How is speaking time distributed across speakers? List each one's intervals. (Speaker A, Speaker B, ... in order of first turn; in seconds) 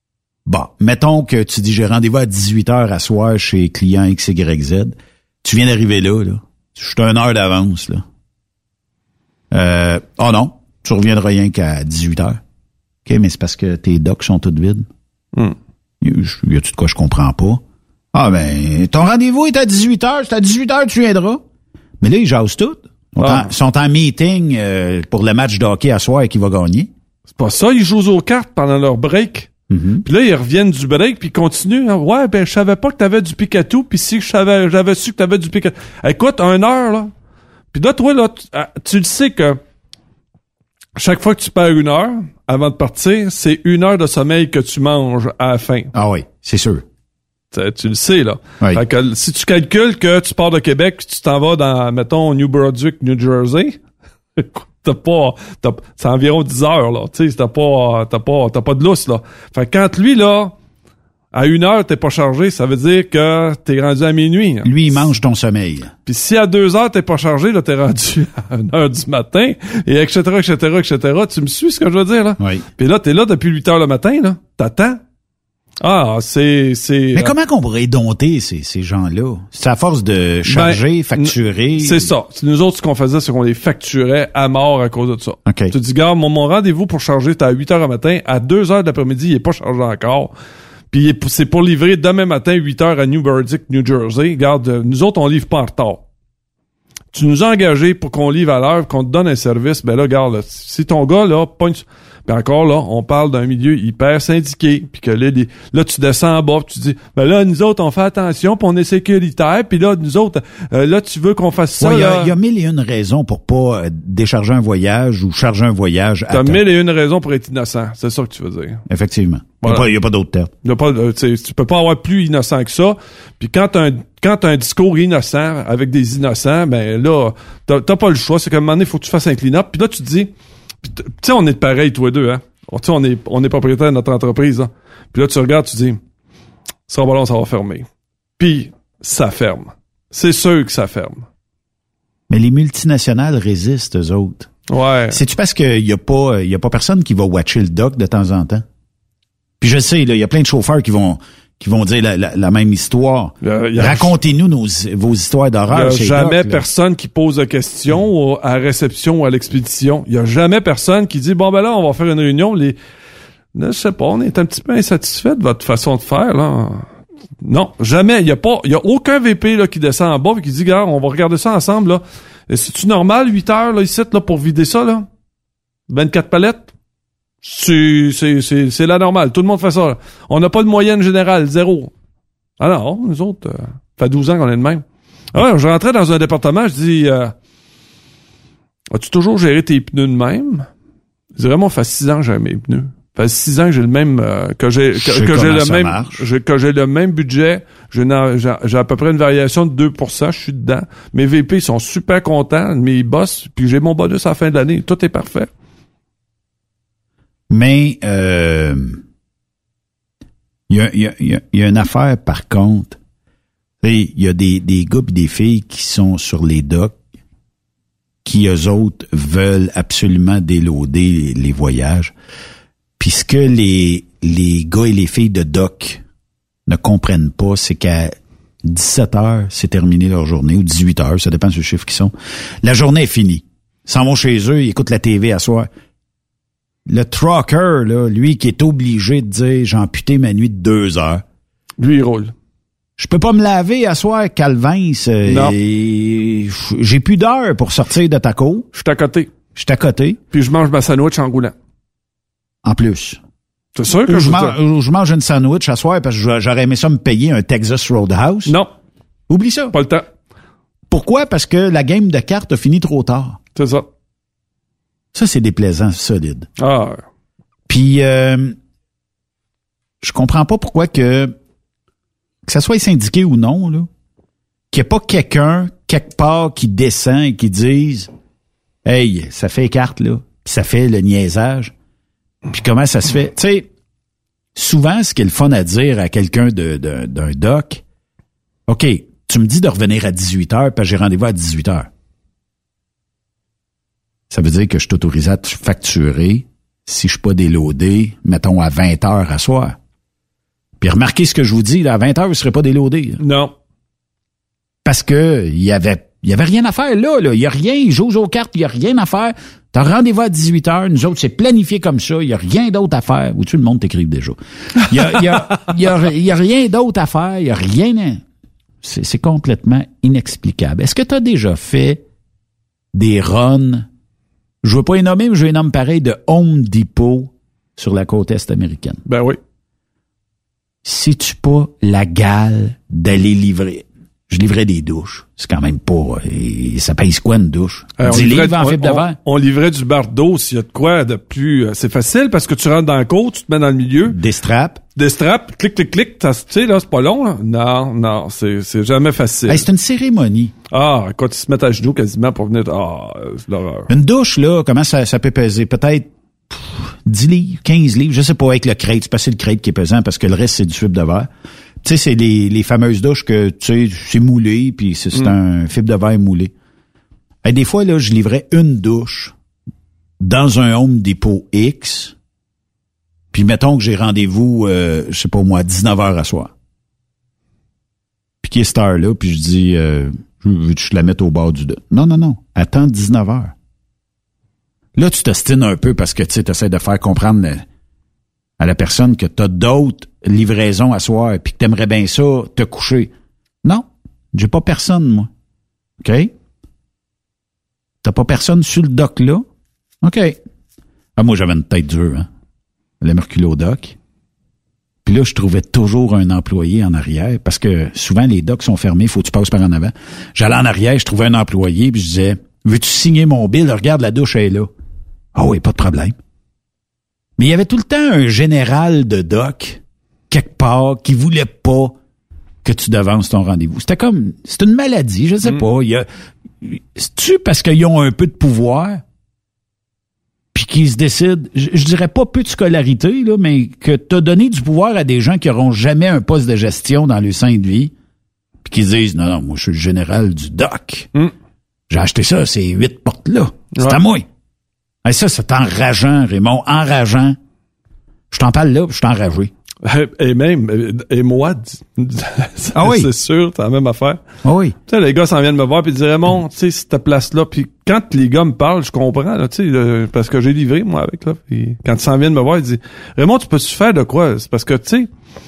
Speaker A: 0.5-8.0, 9.5-12.4, 13.1-14.9, 16.0-17.6, 18.1-21.4, 22.0-26.9, 29.7-30.0, 45.9-46.8, 64.6-65.9, 72.4-72.7, 77.1-82.1, 85.5-85.7, 111.8-116.6, 118.9-120.5, 142.3-144.5, 145.1-148.7, 149.6-156.7, 195.0-196.2, 207.5-209.0, 210.7-213.0, 213.8-217.0, 218.2-222.1, 223.0-226.0, 226.7-235.7, 236.9-241.2, 243.0-248.7, 249.6-250.2, 252.6-253.2, 254.1-258.6, 259.3-259.8, 260.9-263.4, 265.1-266.5, 267.7-268.6, 270.0-271.4, 272.5-273.9, 274.7-278.1, 278.9-281.7, 282.5-283.7, 284.6-287.8, 288.7-291.9, 294.3-299.8, 300.8-303.2, 304.9-318.2, 318.8-322.0, 322.9-323.9, 324.6-329.0, 330.8-339.2, 344.1-344.8, 349.5-350.5, 353.9-361.3, 361.8-366.5, 367.4-369.3, 370.2-372.1, 373.3-376.5, 378.4-383.5, 385.0-387.6, 388.6-393.1, 393.6-395.3, 396.0-396.3, 398.0-399.4, 400.0-400.4, 401.2-402.3, 403.0-404.0, 405.1-414.7, 415.4-416.2, 417.4-422.0, 422.6-426.1, 426.6-429.0, 430.5-437.9, 438.6-441.1, 441.9-444.2, 445.1-447.4, 448.3-449.5, 452.8-453.1, 454.4-454.8
Speaker B: 23.2-23.5, 27.4-29.5, 30.0-37.1, 37.7-39.6, 41.0-45.9, 47.5-53.8, 54.4-60.5, 61.3-64.7, 66.1-75.0, 75.8-77.3, 80.5-90.3, 90.9-96.0, 97.1-112.3, 116.3-118.8, 120.6-130.3, 130.8-136.0, 136.9-137.9, 138.4-141.2, 144.7-145.2, 153.4-154.1, 155.7-162.8, 163.6-166.9, 167.4-175.1, 175.9-176.7, 177.4-181.9, 182.6-187.3, 188.9-190.7, 191.4-205.5, 241.8-242.3, 245.3-245.6, 248.7-249.3, 250.3-251.5, 253.8-254.6, 258.5-258.7, 259.7-260.1, 263.6-263.9, 266.6-267.0, 303.2-303.5, 329.1-329.4, 338.0-344.2, 345.0-349.7, 350.7-353.9, 443.8-444.0, 449.8-454.2, 454.9-465.1